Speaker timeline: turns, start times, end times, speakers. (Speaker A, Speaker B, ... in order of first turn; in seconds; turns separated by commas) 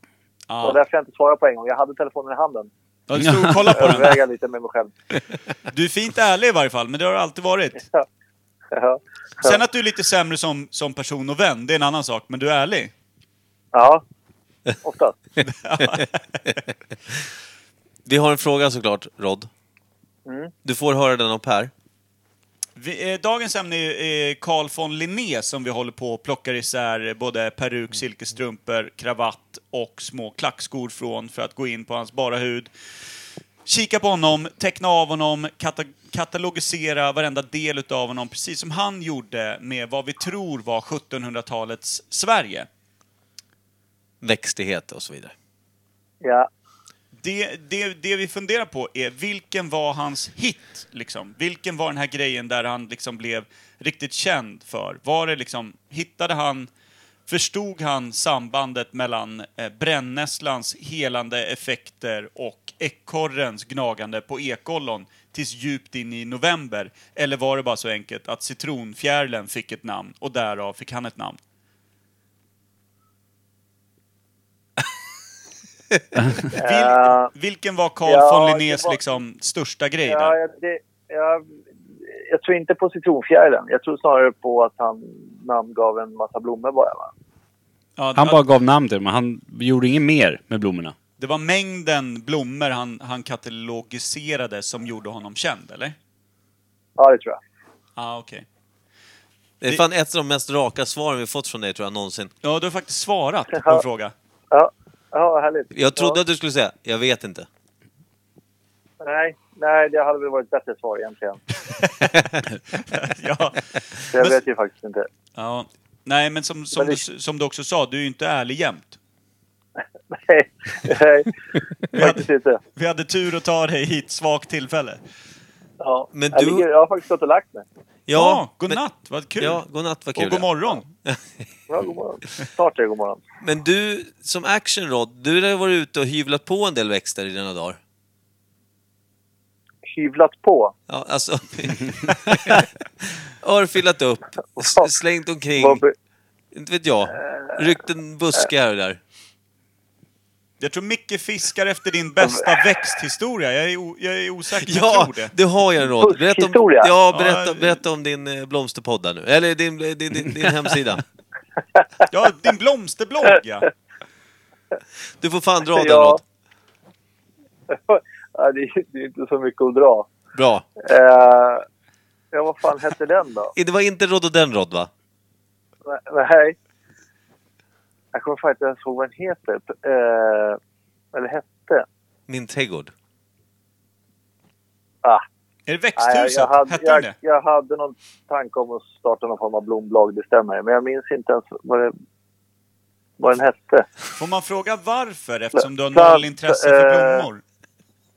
Speaker A: 0.5-0.8, Speaker B: 0.6-2.7, Speaker A: 3.1-4.2, Speaker C: 3.2-3.6, Speaker B: 3.7-4.9, Speaker A: 5.7-7.8, Speaker B: 8.7-9.6, Speaker A: 9.4-12.9, Speaker B: 13.7-14.0, Speaker B: 14.8-15.2, Speaker A: 15.4-16.5, Speaker D: 18.1-19.5, Speaker B: 20.2-20.5, Speaker D: 20.6-21.7, Speaker A: 22.8-32.7, Speaker A: 33.6-42.7, Speaker D: 44.2-45.3, Speaker B: 46.2-46.5, Speaker A: 47.2-56.7, Speaker A: 57.3-71.4, Speaker A: 76.5-80.3, Speaker B: 76.5-77.3, Speaker B: 78.0-79.0, Speaker B: 80.0-81.5, Speaker B: 82.2-87.1, Speaker A: 88.0-88.4, Speaker C: 88.1-91.0, Speaker A: 91.2-96.0, Speaker B: 97.0-97.4, Speaker A: 98.0-98.4, Speaker D: 99.6-102.3, Speaker A: 102.4-104.1, Speaker B: 103.6-103.8, Speaker B: 104.5-106.2, Speaker D: 105.7-107.5, Speaker B: 109.0-111.4, Speaker A: 111.8-112.0, Speaker A: 112.7-114.4, Speaker B: 114.1-115.1, Speaker A: 115.3-119.0, Speaker B: 116.7-117.0, Speaker B: 120.1-121.3, Speaker B: 121.9-122.6, Speaker A: 121.9-125.0, Speaker B: 125.8-127.6, Speaker D: 126.1-126.7, Speaker D: 128.1-128.8, Speaker A: 128.1-129.6, Speaker D: 129.4-131.4, Speaker A: 130.1-130.8, Speaker B: 131.7-133.2, Speaker D: 133.4-137.8, Speaker B: 139.8-140.7, Speaker D: 140.9-142.7, Speaker D: 143.2-145.8, Speaker B: 144.6-144.9, Speaker B: 145.6-145.9, Speaker D: 146.5-149.0, Speaker A: 150.6-155.3, Speaker D: 154.6-161.0, Speaker B: 155.9-156.9, Speaker A: 157.1-157.8, Speaker A: 162.1-163.7, Speaker D: 165.2-166.2, Speaker B: 165.7-166.2, Speaker B: 167.7-170.1, Speaker D: 170.3-170.7, Speaker B: 170.8-171.6, Speaker B: 172.3-173.5, Speaker D: 173.6-174.9, Speaker B: 175.8-176.6, Speaker B: 178.1-180.6, Speaker B: 181.1-181.8, Speaker D: 182.3-182.9, Speaker A: 185.7-187.1, Speaker B: 186.0-191.9, Speaker B: 193.2-193.8, Speaker A: 194.2-197.4, Speaker B: 195.6-197.3